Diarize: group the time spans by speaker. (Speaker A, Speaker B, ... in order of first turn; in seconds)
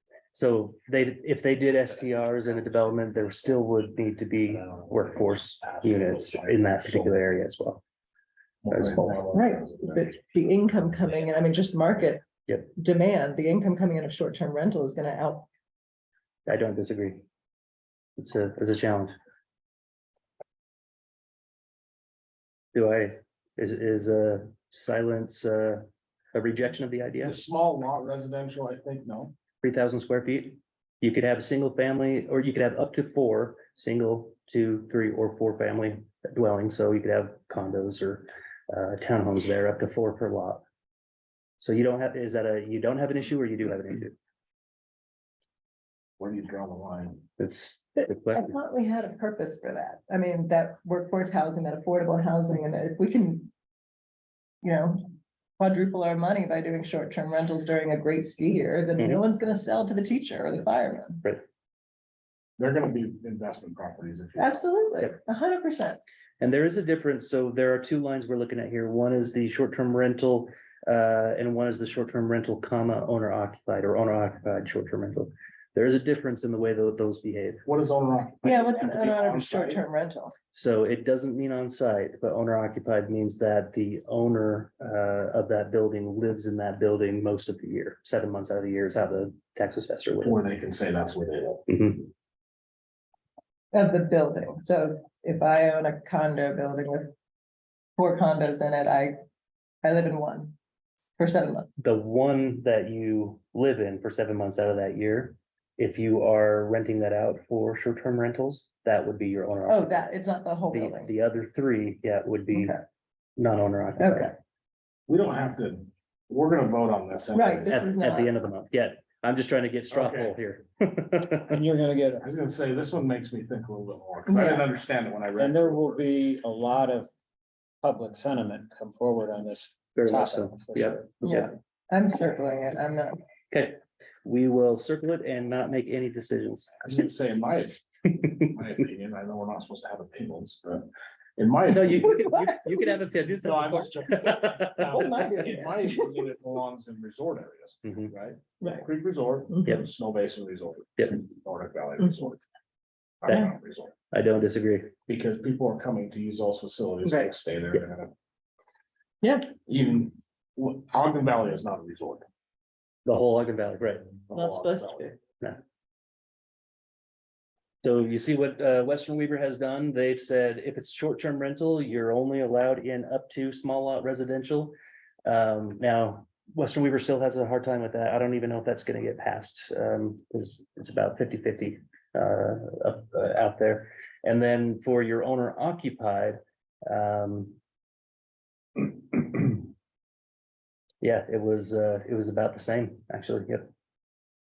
Speaker A: 0.3-7.8, 8.7-9.2, 16.5-17.2, 18.2-19.1, 22.7-27.4, 29.6-40.6, 41.6-44.2, 47.4-48.5, 66.4-77.7, 80.5-90.4, 91.7-92.1, 101.8-110.1, 110.7-112.8, 113.4-114.3, 117.7-121.6, 129.9-131.5, 133.5-136.9, 141.7-145.1, 147.8-148.1, 154.1-154.9, 163.1-164.1, 167.8-187.6, 188.8-189.6, 191.0-193.7
Speaker B: 5.6-7.3, 8.6-10.1, 27.2-29.4, 46.2-47.3, 62.6-64.6, 77.7-79.8, 90.2-91.7, 115.1-117.8, 119.9-120.4, 122.2-126.0, 136.8-137.8, 138.4-142.4, 143.1-152.4, 153.2-153.9, 155.1-158.1, 159.7-162.3, 164.2-165.1
Speaker C: 9.3-15.5, 48.3-53.5, 54.6-55.0, 55.6-61.3, 64.4-66.0, 78.4-80.3, 93.7-97.1, 98.0-99.2, 99.8-100.6, 101.2-101.7, 109.7-111.1, 112.5-112.8, 114.0-114.3, 117.3-118.3, 124.3-124.7, 131.2-133.2, 144.9-146.3, 148.6-148.9, 157.1-157.3, 159.2-159.5, 164.3-165.2
Speaker D: 121.5-122.2, 125.4-127.1, 127.8-131.1